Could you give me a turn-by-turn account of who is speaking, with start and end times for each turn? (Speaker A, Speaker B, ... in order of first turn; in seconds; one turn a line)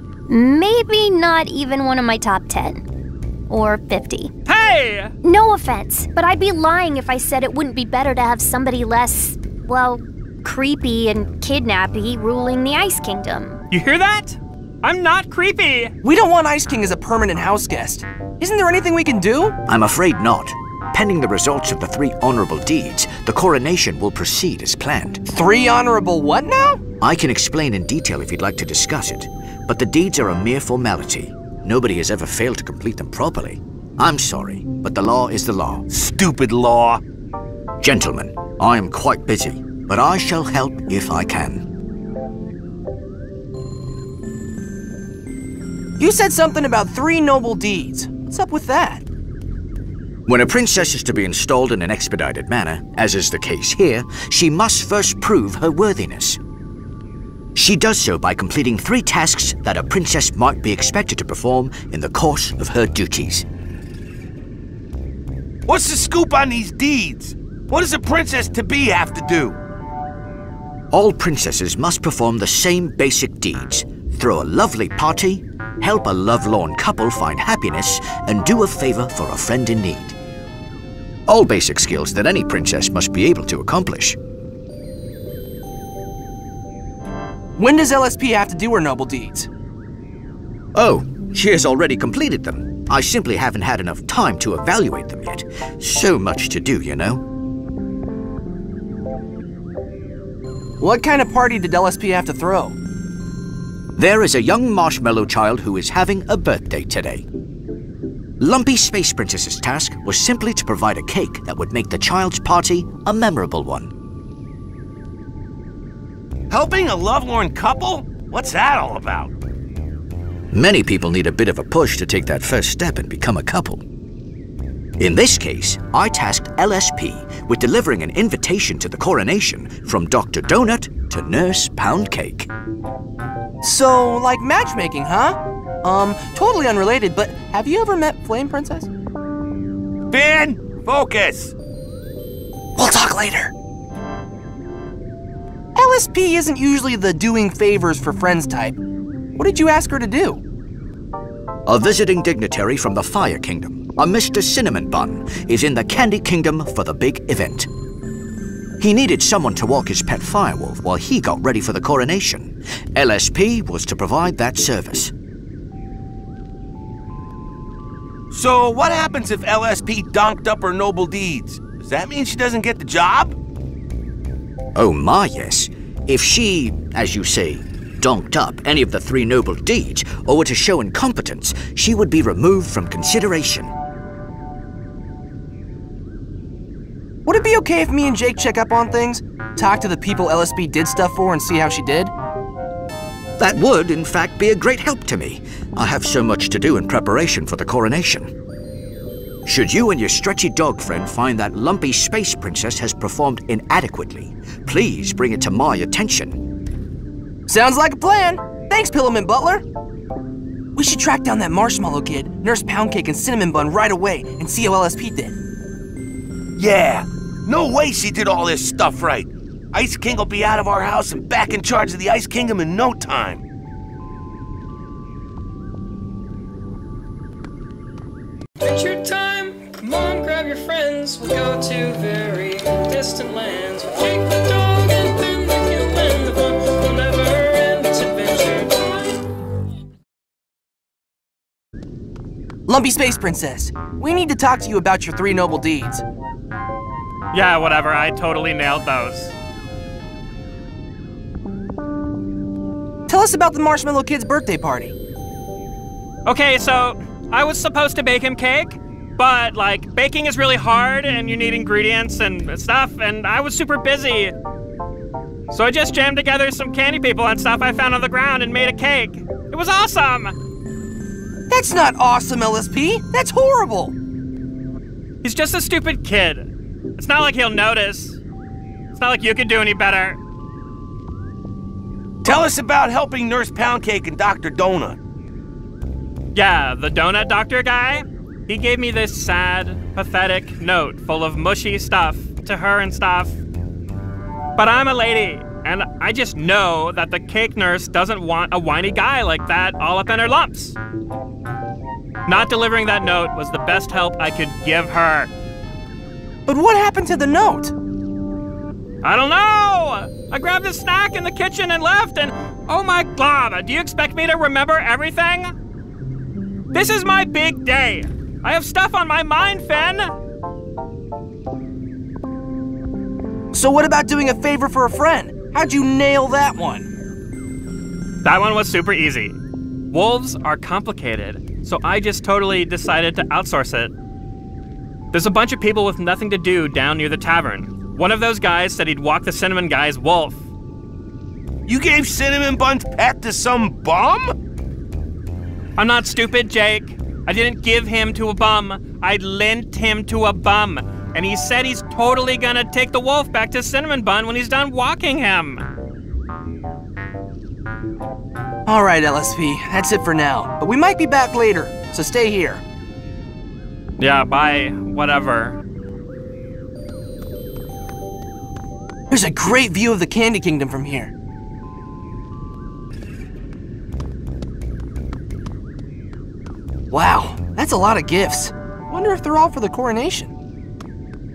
Speaker A: 0.3-2.9
Speaker A: 3.5-4.3
Speaker B: 4.5-5.1
Speaker A: 5.2-13.6
Speaker B: 13.7-15.9
Speaker C: 16.0-19.6
Speaker D: 19.7-25.2
Speaker C: 25.3-26.8
Speaker D: 27.0-35.9
Speaker E: 35.9-37.0
Speaker D: 37.8-41.7
Speaker C: 46.0-49.0
Speaker D: 50.3-56.4
Speaker D: 57.5-63.5
Speaker E: 65.7-69.6
Speaker D: 70.9-80.2
Speaker D: 81.3-84.2
Speaker C: 87.6-89.5
Speaker D: 90.7-97.2
Speaker C: 100.8-102.8
Speaker D: 104.0-107.3
Speaker D: 108.4-113.9
Speaker E: 116.5-119.3
Speaker D: 120.5-123.8
Speaker D: 125.0-132.5
Speaker C: 133.6-138.9
Speaker E: 140.1-141.5
Speaker C: 142.8-143.5
Speaker C: 145.8-148.8
Speaker C: 149.3-150.4
Speaker D: 151.7-157.7
Speaker D: 158.8-165.1
Speaker E: 168.3-173.3
Speaker D: 174.8-183.7
Speaker C: 187.3-192.1
Speaker D: 193.4-198.3
Speaker D: 199.5-206.4
Speaker C: 207.5-209.7
Speaker C: 210.8-215.4
Speaker E: 216.6-223.4
Speaker F: 228.6-239.2
Speaker C: 242.7-246.0
Speaker B: 247.3-249.3
Speaker C: 253.1-255.0
Speaker B: 256.2-264.3
Speaker B: 265.5-270.4
Speaker C: 271.5-273.9
Speaker B: 275.2-278.2
Speaker B: 278.9-280.2
Speaker E: 282.2-285.0
Speaker B: 286.3-293.4
Speaker B: 294.6-300.8
Speaker B: 302.3-305.3
Speaker C: 306.5-307.7
Speaker B: 309.0-315.5
Speaker B: 316.7-320.1
Speaker C: 323.5-326.9
Speaker B: 328.2-329.4
Speaker B: 329.9-333.9
Speaker B: 335.1-340.4
Speaker E: 341.7-344.4
Speaker B: 345.8-355.7
Speaker C: 358.7-362.6
Speaker B: 364.0-365.6
Speaker C: 369.1-371.1
Speaker C: 376.9-380.3